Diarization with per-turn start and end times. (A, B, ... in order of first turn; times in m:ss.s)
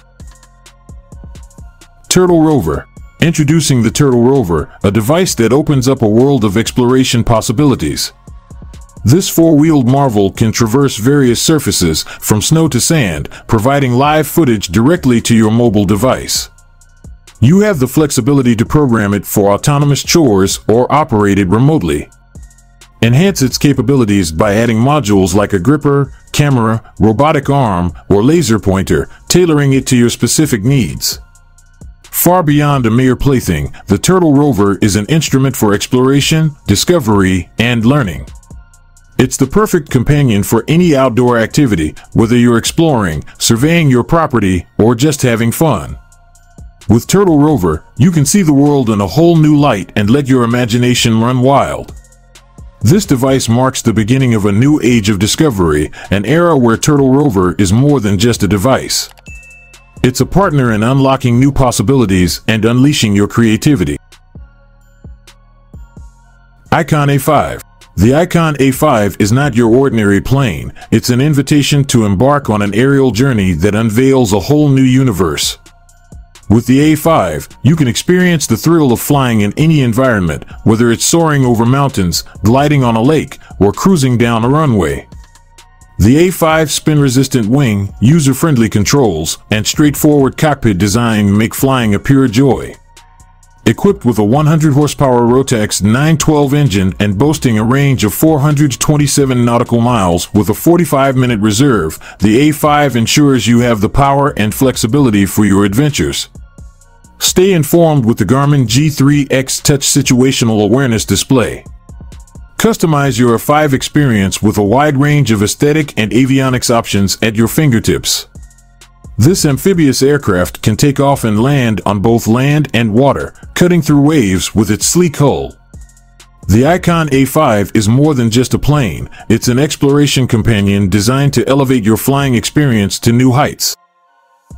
0:02.1-0:08.1 A
0:09.0-0:16.5 A
0:17.4-0:22.1 A
0:23.0-0:31.2 A
0:32.1-0:38.3 A
0:39.2-0:46.0 A
0:46.9-0:51.9 A
0:52.8-0:59.1 A
1:00.0-1:04.0 A
1:06.7-1:15.6 A
1:16.5-1:25.1 A
1:26.0-1:32.8 A
1:33.6-1:46.3 A
1:47.2-1:51.6 A
1:52.6-1:58.3 A
1:59.2-2:05.6 A
2:06.4-2:13.8 A